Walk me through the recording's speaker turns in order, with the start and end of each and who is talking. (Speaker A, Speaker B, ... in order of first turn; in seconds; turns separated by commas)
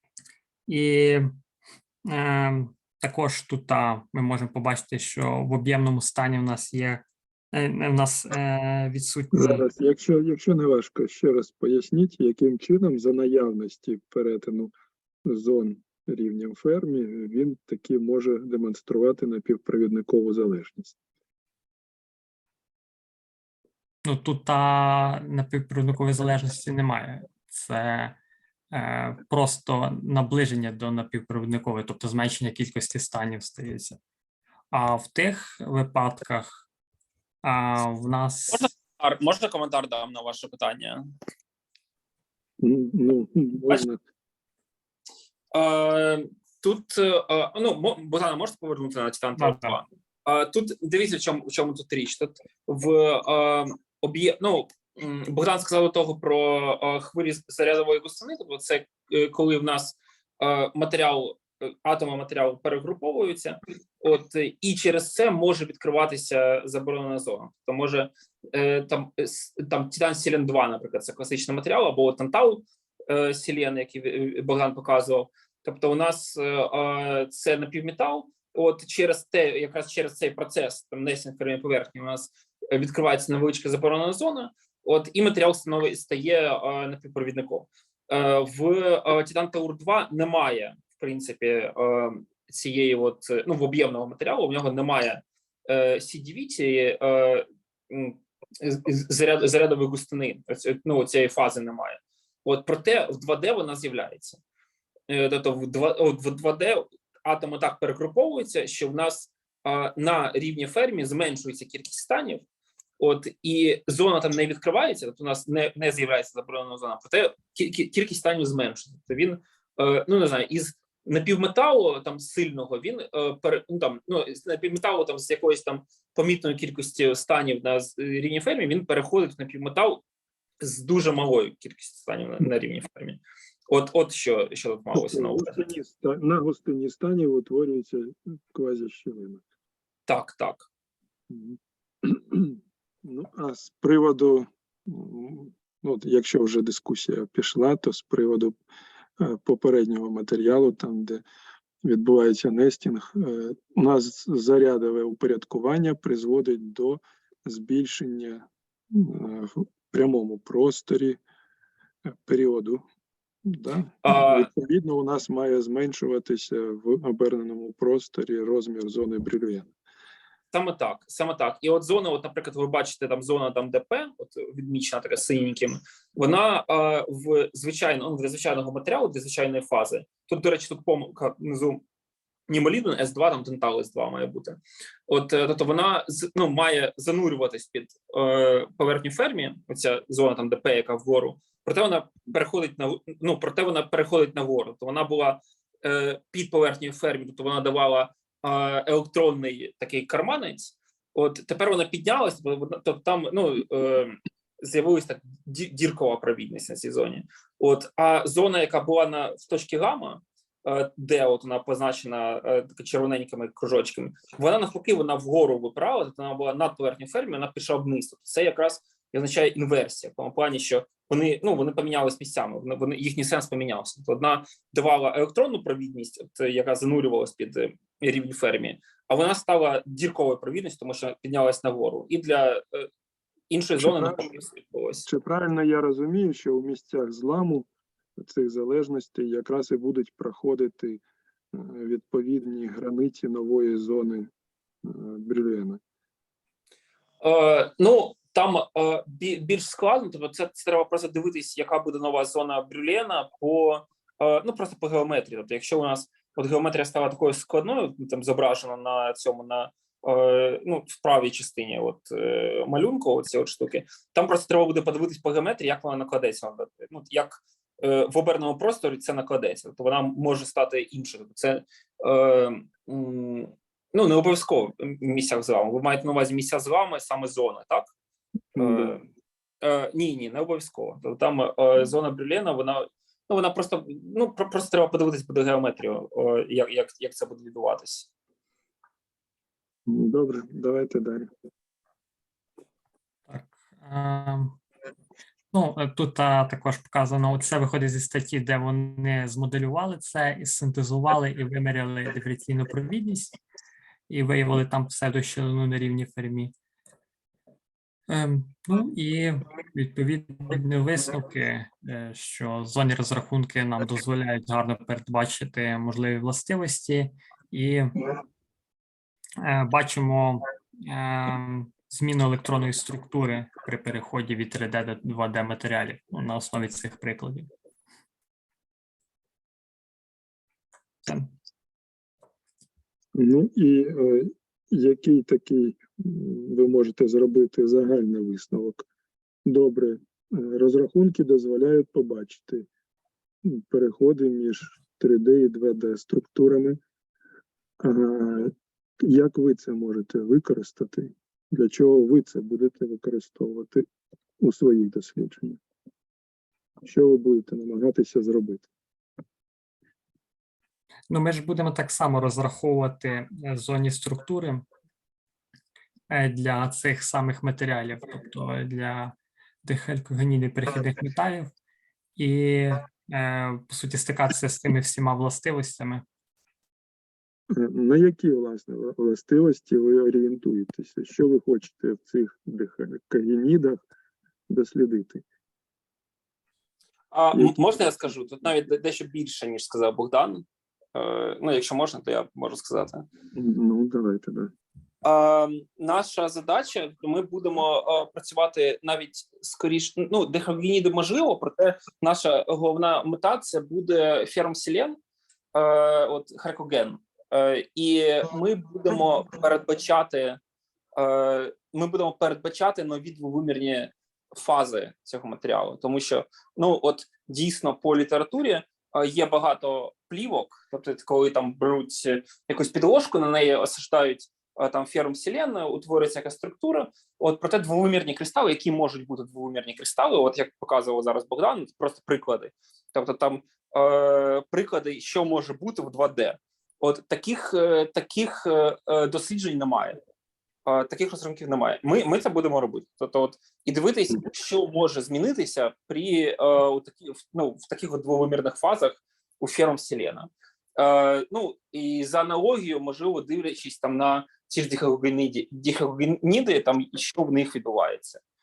Speaker A: 0.7-1.3, Speaker A: 2.1-9.7, Speaker B: 9.3-14.7, Speaker B: 15.2-21.0, Speaker A: 24.0-28.2, Speaker A: 28.7-34.0, Speaker A: 34.7-36.6, Speaker A: 37.4-38.7, Speaker C: 38.5-41.0, Speaker B: 42.6-44.0, Speaker C: 45.5-104.4, Speaker A: 49.4-49.8, Speaker C: 105.1-112.4, Speaker C: 113.0-130.0, Speaker C: 130.6-135.6, Speaker B: 134.9-139.4, Speaker C: 140.1-140.7, Speaker B: 141.3-148.6, Speaker B: 149.2-151.2, Speaker B: 151.8-161.2, Speaker B: 162.1-162.8, Speaker B: 163.4-169.7, Speaker C: 164.0-164.5, Speaker C: 170.5-181.8, Speaker C: 182.5-232.9, Speaker C: 233.5-235.1, Speaker B: 233.8-234.2, Speaker B: 235.1-244.3, Speaker B: 244.8-245.8, Speaker C: 247.2-277.9, Speaker B: 278.5-278.9, Speaker C: 278.6-279.0, Speaker C: 279.6-288.1, Speaker B: 289.9-291.3, Speaker A: 293.3-294.6, Speaker A: 295.5-303.4, Speaker A: 304.1-306.5, Speaker A: 308.1-318.1, Speaker A: 319.4-327.5, Speaker A: 331.1-331.3, Speaker B: 333.1-338.8, Speaker B: 339.4-342.7, Speaker B: 343.4-346.8, Speaker B: 347.8-353.9, Speaker B: 354.4-355.6, Speaker B: 356.8-358.7, Speaker A: 361.1-364.7, Speaker A: 366.1-371.5, Speaker A: 372.2-376.0, Speaker B: 377.5-383.8, Speaker B: 384.5-385.2, Speaker C: 387.1-393.1, Speaker B: 393.3-394.5, Speaker C: 395.0-405.0, Speaker C: 405.5-410.4, Speaker C: 410.9-440.0, Speaker C: 440.7-458.2